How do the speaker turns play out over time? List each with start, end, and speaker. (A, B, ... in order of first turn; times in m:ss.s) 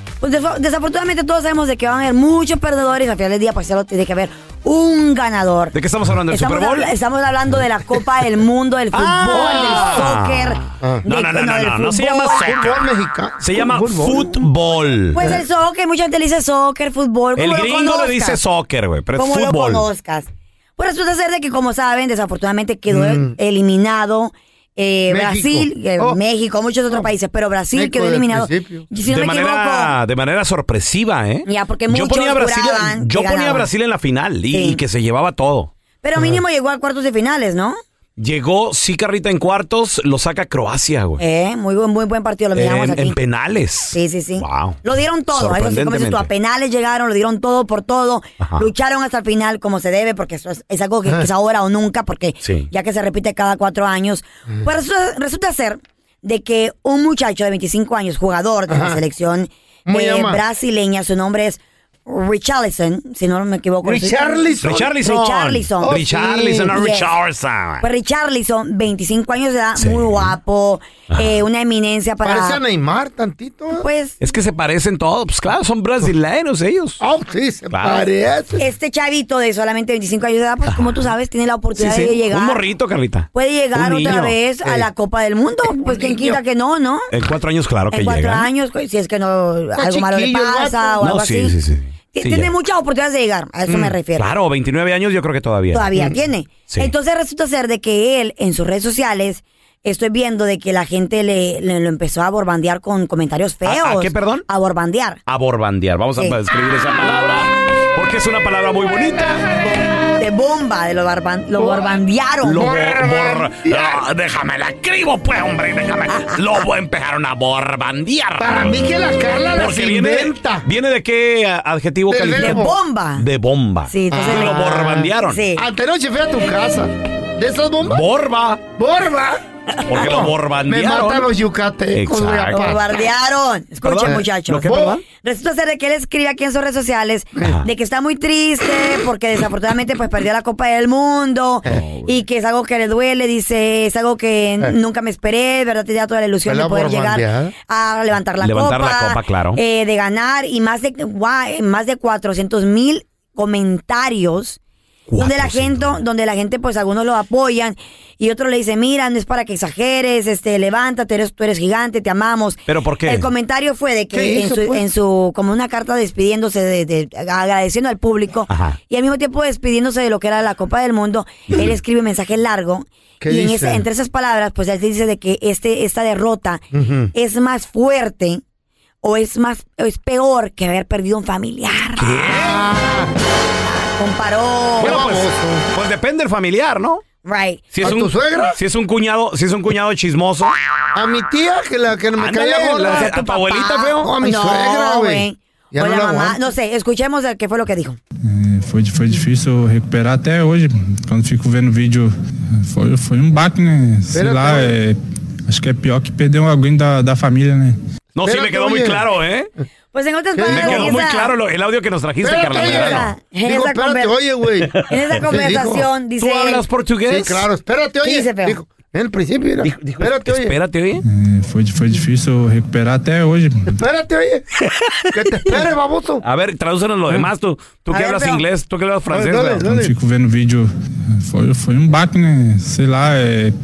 0:00.2-0:05.7 A
0:05.7-0:06.9 B
0:06.3-0:12.5 A
0:08.9-0:12.8 B
0:09.3-0:10.1 C
0:12.3-0:14.4 C
0:13.4-0:15.2 B
0:15.1-0:18.4 A
0:15.2-0:15.4 C
0:17.4-0:19.8 B
0:19.2-0:29.9 A
0:22.9-0:23.4 C
0:25.1-0:26.2 C
0:27.7-0:28.8 C
0:29.1-0:35.7 B
0:31.4-0:33.7 A
0:34.5-0:34.8 A
0:36.0-0:37.8 A
0:36.2-0:36.4 C
0:38.2-0:41.2 B
0:41.2-0:43.2 A
0:42.5-0:44.8 B
0:43.9-1:06.0 A
0:45.3-0:46.3 B
0:48.4-0:48.7 B
0:52.4-0:52.7 B
0:58.7-0:59.0 C
0:59.8-1:00.4 C
1:03.8-1:05.0 C
1:04.6-1:07.8 B
1:05.8-1:06.7 C
1:06.7-1:07.1 A
1:07.8-1:12.6 A
1:09.8-1:10.4 B
1:11.1-1:11.4 B
1:12.2-1:13.8 C
1:13.8-1:14.2 A
1:14.2-1:17.0 B
1:17.0-1:18.6 C
1:17.7-1:18.1 B
1:18.6-1:22.6 A
1:20.7-1:21.1 B
1:21.8-1:24.3 B
1:23.3-1:27.1 A
1:24.6-1:24.9 C
1:25.8-1:26.4 C
1:27.1-1:28.5 B
1:27.9-1:31.5 A
1:29.7-1:31.0 C
1:31.0-1:32.5 B
1:32.1-1:34.3 A
1:33.7-1:35.9 B
1:35.7-1:45.2 A
1:43.6-1:44.4 B
1:45.3-1:49.4 B
1:50.2-1:52.7 A
1:51.6-1:52.0 C
1:52.4-1:58.8 B
1:52.5-1:54.0 C
1:58.4-2:00.7 C
1:59.6-2:05.4 B
2:02.1-2:02.7 C
2:02.4-2:03.2 A
2:03.9-2:05.6 A
2:04.1-2:08.0 C
2:07.8-2:08.6 B
2:08.8-2:12.8 C
2:09.8-2:11.3 B
2:11.9-2:12.7 B
2:12.5-2:34.6 A
2:13.8-2:15.0 B
2:14.0-2:15.0 C
2:17.4-2:17.7 B
2:21.6-2:22.1 B
2:26.4-2:27.5 C
2:28.4-2:29.6 B
2:35.1-2:36.0 B
2:35.2-2:58.4 A
2:42.7-2:43.3 B
2:44.1-2:44.8 C
2:48.5-2:48.8 B
2:53.2-2:53.8 C
2:56.7-2:57.1 C
2:59.0-3:02.2 A
3:02.0-3:02.6 B
3:02.3-3:03.1 C
3:03.9-3:05.0 A
3:04.8-3:05.6 C
3:04.8-3:07.0 B
3:07.2-3:07.7 A
3:07.7-3:10.5 B
3:07.8-3:08.6 C
3:10.9-3:13.1 C
3:12.2-3:14.0 B
3:12.8-3:18.0 A
3:14.0-3:16.4 C
3:18.2-3:27.8 D
3:24.1-3:24.7 C
3:28.1-3:29.5 B
3:28.2-3:29.0 C
3:29.9-3:31.3 A
3:30.3-3:31.0 C
3:30.5-3:33.1 B
3:32.2-3:35.9 C
3:32.5-3:34.1 A
3:34.7-3:35.2 B
3:34.9-3:36.6 A
3:36.2-3:37.4 B
3:37.1-3:40.6 C
3:38.0-3:38.6 A
3:39.6-3:41.0 B
3:41.0-3:43.7 D
3:43.7-3:44.4 C
3:45.1-3:46.2 C
3:46.2-3:49.6 B
3:47.9-3:48.4 A
3:49.1-3:49.9 C
3:49.6-3:53.5 D